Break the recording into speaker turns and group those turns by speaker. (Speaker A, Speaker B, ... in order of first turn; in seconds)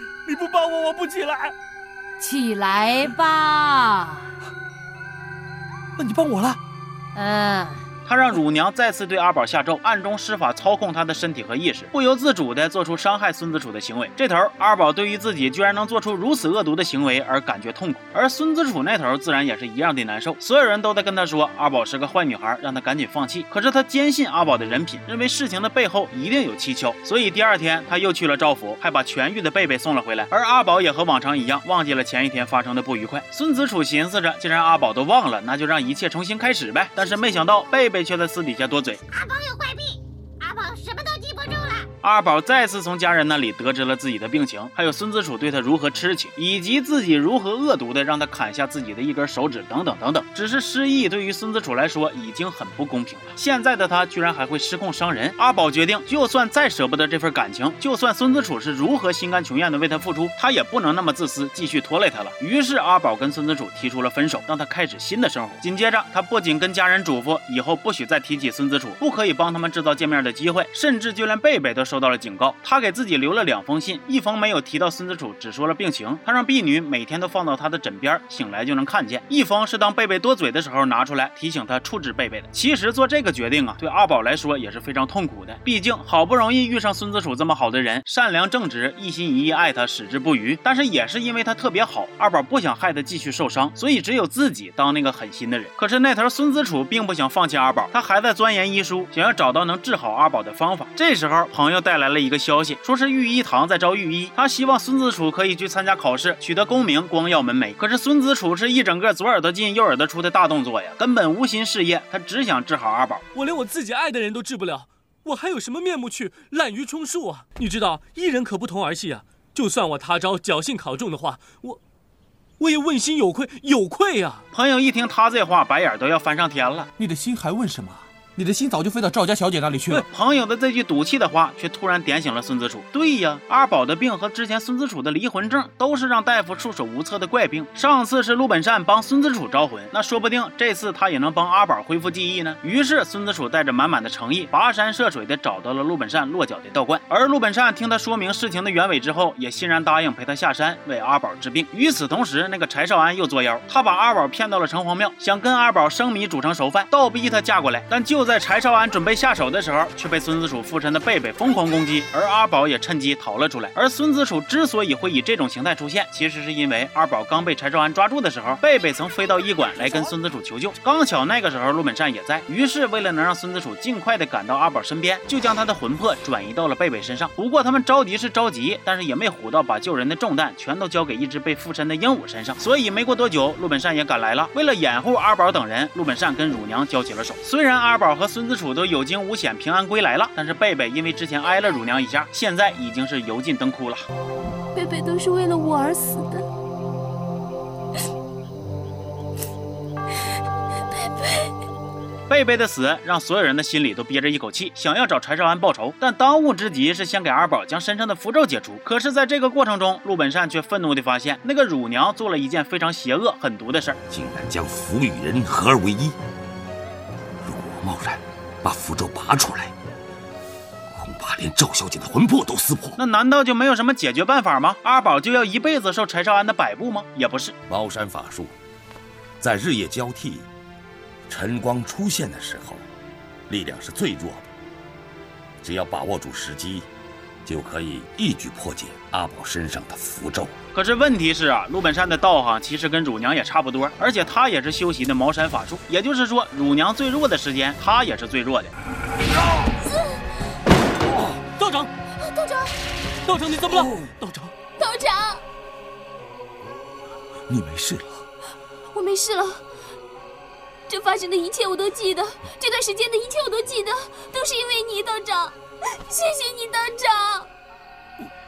Speaker A: 0.2-1.5, 113.3-121.8, 122.6-124.4, 251.1-251.9, 253.2-254.5
Speaker B: 2.2-4.3, 7.1-7.8
Speaker C: 6.0-6.6, 127.0-130.0
Speaker D: 8.1-39.0, 42.0-113.2, 124.5-126.9, 130.0-194.1, 202.3-214.0, 223.0-227.5, 240.7-248.7
Speaker E: 39.1-41.9
Speaker F: 194.7-196.5, 249.8-250.2, 252.2-252.7, 254.8-255.4, 258.9-259.6, 260.9-267.5
Speaker G: 214.1-216.2, 217.4-219.7, 220.9-223.0, 227.7-228.5, 229.4-230.5, 231.3-232.8, 233.5-234.5, 235.6-236.9, 237.4-240.5, 257.5-258.2